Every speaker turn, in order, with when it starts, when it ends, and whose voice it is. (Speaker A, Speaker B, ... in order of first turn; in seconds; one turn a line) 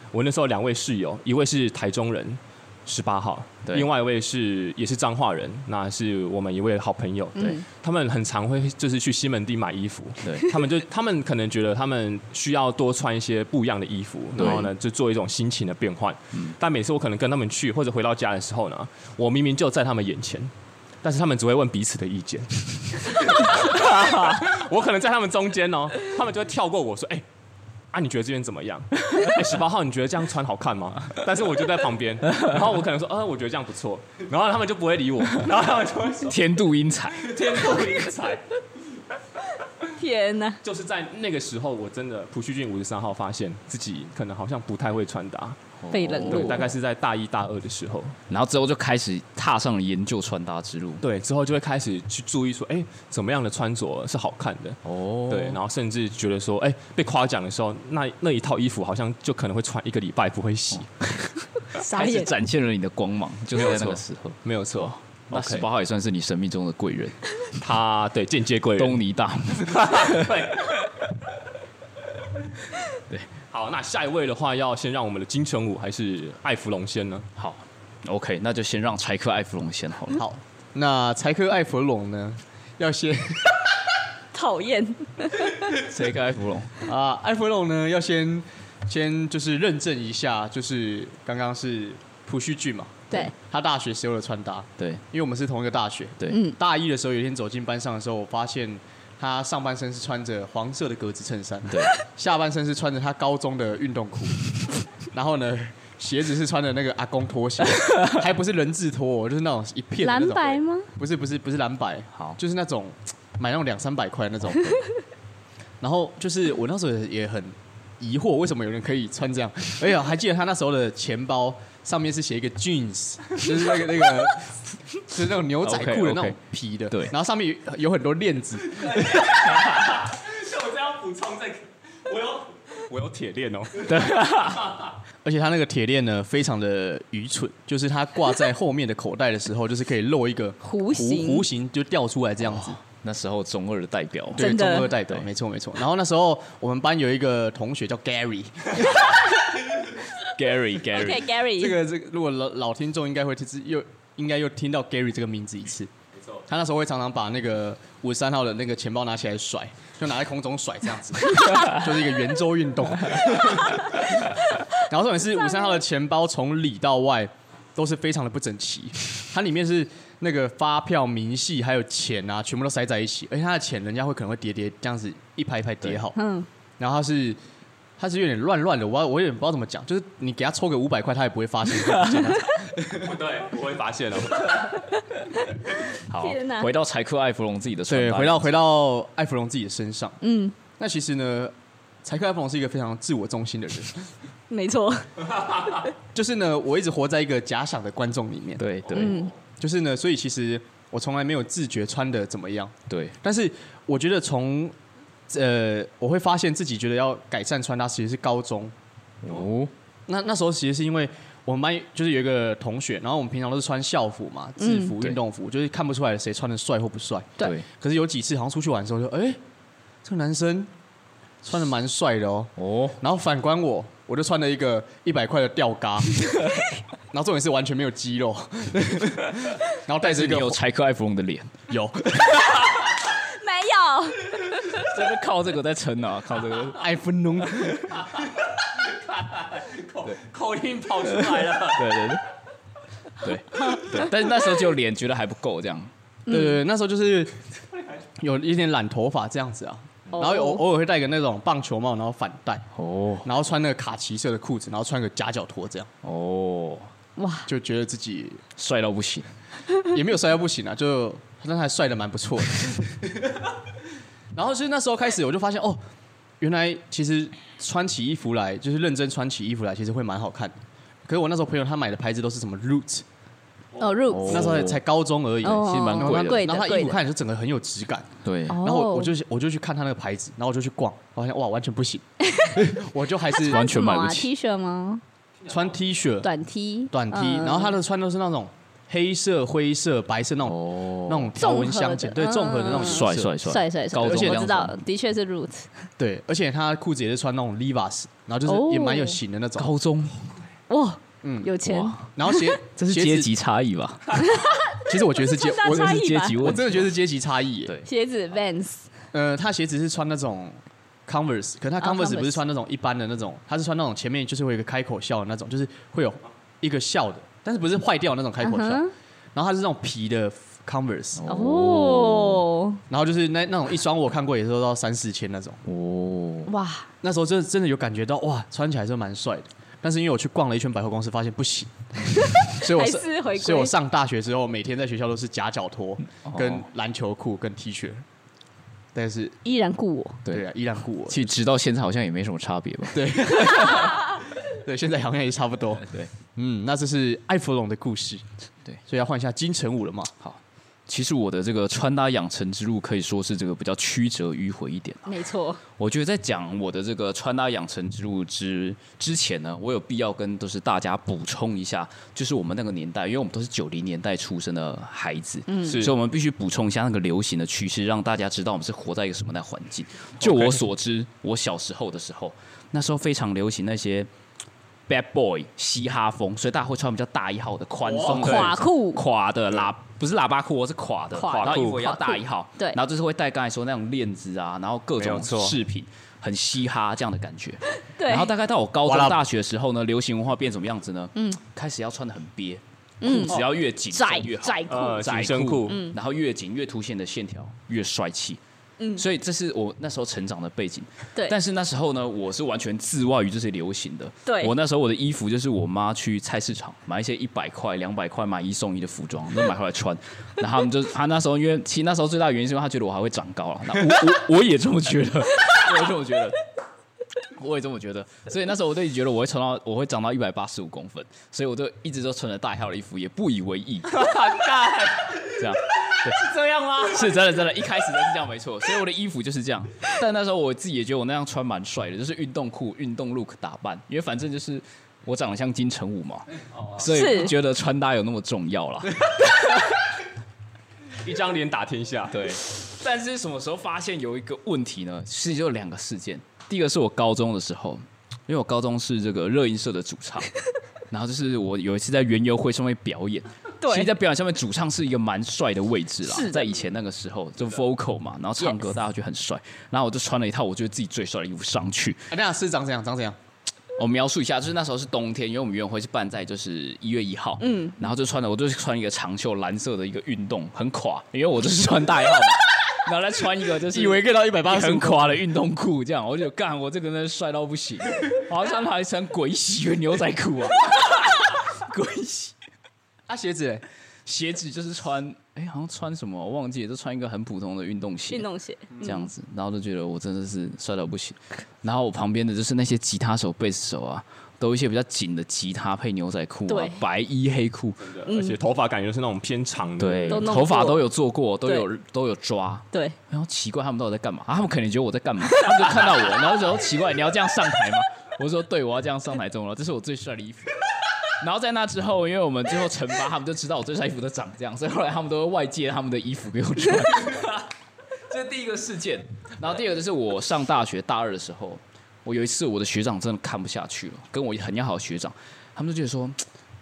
Speaker A: 0.1-20.5
Speaker B: 10.2-10.5
Speaker B: 14.4-14.7
Speaker A: 21.0-27.2
Speaker A: 27.9-36.4
Speaker B: 36.2-37.9
Speaker A: 37.1-38.5
Speaker C: 40.0-40.6
Speaker A: 40.6-45.6
Speaker B: 45.8-46.7
Speaker C: 45.9-46.7
Speaker A: 46.3-48.2
Speaker B: 48.3-51.0
Speaker A: 51.0-60.9
Speaker B: 54.8-55.6
Speaker C: 61.8-62.3
Speaker B: 61.8-67.2
Speaker A: 63.5-65.7
Speaker A: 67.6-69.0
Speaker B: 68.8-70.5
Speaker A: 69.6-70.8
Speaker A: 73.5-77.3
Speaker B: 77.4-80.2
Speaker D: 80.2-83.7
Speaker C: 84.3-85.7
Speaker B: 85.8-86.7
Speaker D: 86.8-114.8
Speaker C: 96.3-96.6
Speaker C: 110.0-110.9
Speaker D: 115.8-129.5
Speaker B: 125.6-126.4
Speaker A: 128.8-134.9
Speaker B: 133.8-134.7
Speaker D: 135.2-142.8
Speaker C: 140.6-141.5
Speaker B: 142.4-144.5
Speaker C: 144.3-144.9
Speaker D: 144.3-149.1
Speaker B: 150.3-151.3
Speaker C: 150.9-151.8
Speaker D: 151.6-155.9
Speaker D: 156.5-164.2
Speaker D: 164.8-176.2
Speaker C: 176.2-176.5
Speaker D: 176.8-177.4
Speaker D: 178.0-183.0
Speaker A: 182.9-184.8
Speaker B: 186.1-188.6
Speaker C: 186.1-186.7
Speaker D: 187.9-190.2
Speaker C: 190.2-190.6
Speaker D: 190.8-194.1
Speaker C: 194.5-195.8
Speaker D: 196.1-204.8
Speaker B: 198.6-199.3
Speaker C: 198.9-199.3
Speaker B: 202.9-203.2
Speaker D: 205.3-208.7
Speaker B: 209.2-209.7
Speaker D: 210.1-219.4
Speaker C: 214.6-214.9
Speaker B: 217.4-217.7
Speaker D: 220.0-220.7
Speaker D: 221.4-226.3
Speaker B: 222.6-223.0
Speaker D: 227.1-230.6
Speaker B: 230.0-231.6
Speaker D: 231.7-232.6
Speaker C: 232.6-234.9
Speaker B: 234.8-236.8
Speaker D: 236.7-238.2
Speaker A: 238.9-242.1
Speaker B: 241.3-242.2
Speaker B: 243.2-245.9
Speaker C: 243.6-243.9
Speaker C: 246.3-246.6
Speaker D: 246.3-247.4
Speaker D: 248.2-252.7
Speaker C: 250.2-250.6
Speaker B: 252.8-253.3
Speaker D: 253.2-255.9
Speaker B: 256.0-256.9
Speaker C: 257.2-257.5
Speaker D: 257.5-258.4
Speaker B: 258.6-259.3
Speaker D: 259.9-263.5
Speaker D: 264.3-265.8
Speaker D: 266.4-270.6
Speaker D: 271.1-273.1
Speaker C: 273.8-274.6
Speaker B: 274.1-274.8
Speaker D: 274.2-283.7
Speaker C: 275.4-277.0
Speaker B: 275.5-276.4
Speaker B: 278.2-278.6
Speaker C: 278.5-279.1
Speaker C: 282.2-282.7
Speaker C: 283.3-285.0
Speaker B: 283.4-284.3
Speaker D: 285.5-286.3
Speaker C: 286.2-287.8
Speaker D: 286.9-293.3
Speaker B: 290.4-291.3
Speaker C: 291.4-295.7
Speaker B: 292.7-294.8
Speaker D: 294.0-294.4
Speaker D: 296.0-299.7
Speaker C: 298.5-299.2
Speaker B: 299.6-300.2
Speaker C: 300.7-302.5
Speaker D: 301.2-301.6
Speaker B: 301.6-302.1
Speaker D: 302.1-303.3
Speaker B: 302.8-304.2
Speaker C: 304.1-306.6
Speaker D: 304.9-307.8
Speaker B: 305.6-306.9
Speaker C: 307.9-308.9
Speaker D: 309.1-318.8
Speaker C: 311.8-312.4
Speaker C: 318.4-318.9
Speaker D: 319.4-321.2
Speaker B: 321.1-322.4
Speaker C: 321.3-322.8
Speaker D: 322.9-325.6
Speaker B: 325.7-326.5
Speaker C: 326.5-326.9
Speaker D: 327.0-338.1
Speaker C: 332.2-333.7
Speaker B: 336.2-336.6
Speaker D: 338.9-339.4
Speaker C: 339.4-340.2
Speaker D: 340.3-341.4
Speaker B: 341.1-343.9
Speaker D: 342.9-348.2
Speaker B: 345.8-346.1
Speaker D: 348.9-350.1
Speaker B: 350.2-355.1
Speaker C: 355.1-355.6
Speaker B: 355.7-374.1
Speaker C: 365.5-365.9
Speaker A: 370.2-370.6
Speaker B: 374.9-398.4
Speaker C: 378.0-379.0
Speaker A: 378.1-378.6
Speaker C: 381.1-382.8
Speaker A: 381.2-382.0
Speaker A: 385.0-385.6
Speaker C: 387.9-388.3
Speaker D: 388.8-389.2
Speaker C: 393.0-395.0
Speaker A: 394.7-395.9
Speaker C: 395.7-396.0
Speaker C: 398.8-399.1
Speaker B: 399.0-416.4
Speaker C: 404.3-404.5
Speaker B: 417.2-424.1
Speaker A: 423.9-427.2
Speaker B: 425.4-426.2
Speaker B: 426.9-439.7
Speaker C: 436.9-437.4
Speaker A: 441.0-442.3
Speaker B: 442.1-450.3
Speaker B: 450.9-462.1
Speaker C: 453.6-453.9
Speaker C: 456.1-456.6
Speaker C: 458.4-458.7
Speaker D: 462.1-463.2
Speaker B: 463.8-482.4
Speaker C: 467.4-467.8
Speaker D: 473.7-475.2
Speaker D: 483.1-483.6
Speaker B: 484.1-488.3
Speaker C: 488.1-489.1
Speaker B: 488.8-497.9
Speaker C: 496.5-496.8
Speaker A: 497.8-500.4
Speaker C: 498.1-498.4
Speaker B: 499.8-510.6
Speaker C: 500.1-500.9
Speaker B: 511.1-517.5
Speaker B: 518.1-526.2